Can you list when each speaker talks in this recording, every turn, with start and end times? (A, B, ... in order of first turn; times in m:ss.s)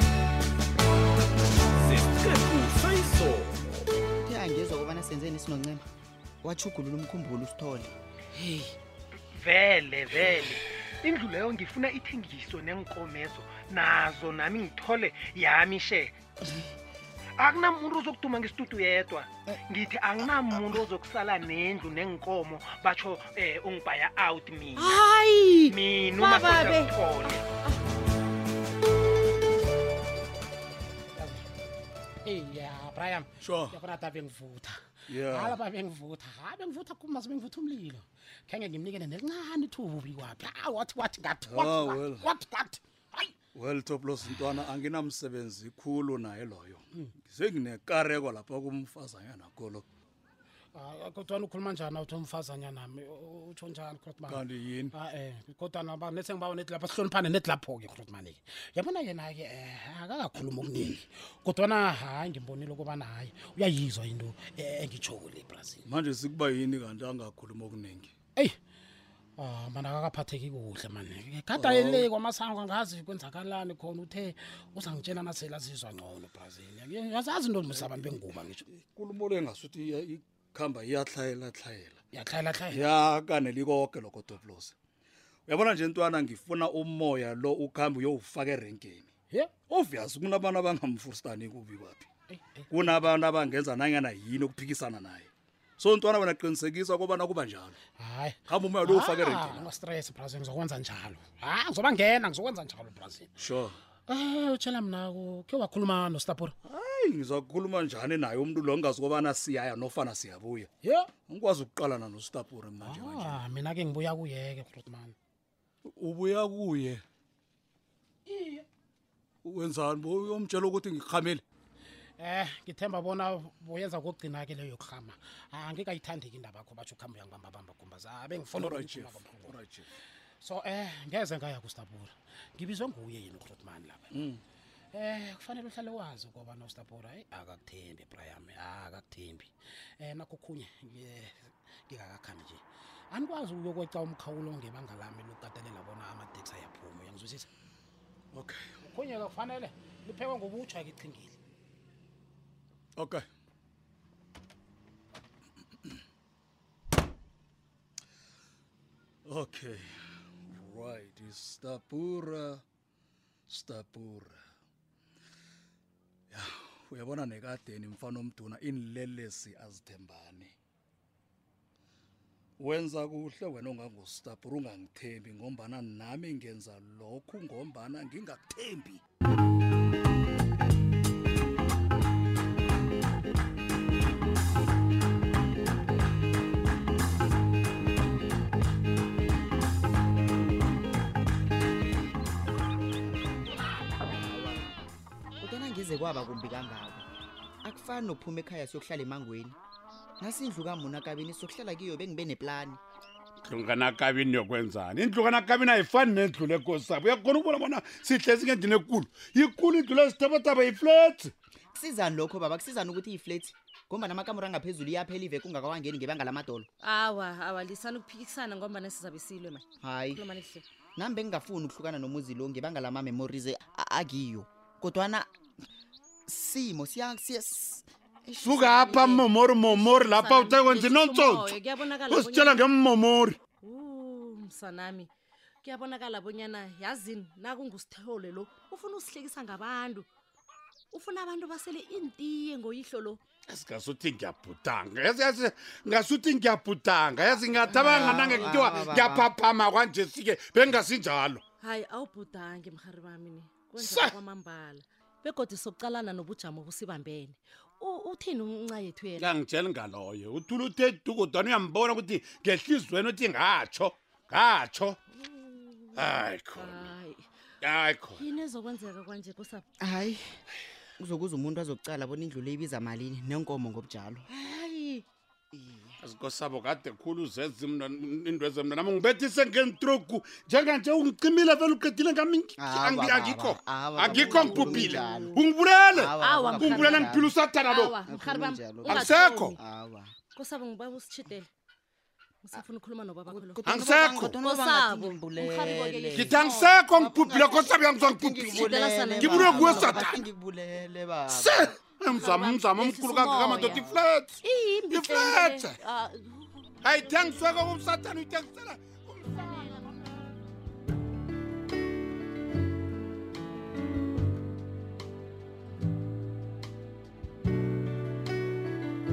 0:01.8-0:03.8 A
0:04.2-0:05.8 B
0:06.4-0:08.0 B
0:09.3-0:16.2 C
0:17.4-0:25.0 C
0:24.8-0:27.0 D
0:25.7-0:27.5 C
0:31.2-0:31.4 E
0:32.2-0:34.7 E
0:33.4-0:33.8 F
0:35.1-0:35.6 F
0:35.3-0:43.3 E
0:41.5-0:42.3 F
0:43.5-0:49.9 F
0:50.8-1:05.9 E
0:54.3-0:55.0 F
1:05.9-1:08.1 F
1:09.4-1:18.6 E
1:11.5-1:12.1 F
1:17.7-1:22.0 F
1:22.1-1:22.8 E
1:22.7-1:24.8 F
1:25.5-1:29.1 F
1:29.6-1:32.1 F
1:32.3-1:33.1 E
1:32.7-1:37.8 F
1:38.0-1:43.3 E
1:38.5-1:39.7 F
1:43.4-1:43.8 F
1:44.1-1:46.6 E
1:46.7-1:53.4 F
1:50.8-1:51.1 E
1:52.8-1:55.2 E
1:55.9-1:57.0 F
1:58.3-1:58.6 E
1:59.4-2:01.4 F
2:02.2-2:09.6 E
2:08.5-2:09.9 F
2:10.4-2:14.2 E
2:14.1-2:14.4 F
2:14.9-2:27.5 E
2:28.3-2:28.8 F
2:28.8-2:31.4 E
2:33.0-2:33.2 F
2:39.3-2:39.9 F
2:40.5-2:42.6 F
2:43.5-2:44.4 F
2:46.3-2:50.5 F
2:52.6-2:59.0 F
3:14.1-3:14.7 B
3:15.4-3:17.1 B
3:17.6-3:19.6 B
3:20.2-3:22.8 B
3:23.4-3:31.3 G
3:31.7-3:36.7 B
3:36.8-3:40.6 D
3:39.8-3:40.2 B
3:41.0-3:45.3 B
3:46.3-3:49.1 B
3:48.4-3:51.6 G
3:48.9-3:52.6 D
3:52.1-3:53.4 G
3:53.6-3:55.1 D
3:55.6-4:00.1 D
4:00.9-4:03.2 D
4:03.5-4:11.4 G
4:07.7-4:09.3 B
4:11.6-4:19.3 D
4:13.8-4:14.1 G
4:19.2-4:25.0 G
4:25.2-4:27.3 D
4:26.0-4:26.9 G
4:27.6-4:28.2 G
4:28.1-4:29.6 D
4:29.8-4:30.4 B
4:31.0-4:34.3 B
4:34.3-4:35.0 D
4:35.5-4:36.0 B
4:36.0-4:48.0 G
4:42.6-4:45.4 B
4:45.9-4:47.3 B
4:46.2-4:49.6 D
4:48.1-4:50.1 B
4:48.9-4:49.6 G
4:50.4-4:51.5 D
4:52.4-4:53.6 D
4:53.3-4:56.3 B
4:53.7-4:54.4 G
4:54.4-4:56.8 D
4:56.1-5:00.2 G
4:56.9-5:01.8 B
4:58.5-5:00.2 D
5:01.3-5:04.4 G
5:02.1-5:06.8 D
5:03.5-5:03.9 B
5:04.9-5:05.8 G
5:06.8-5:09.9 G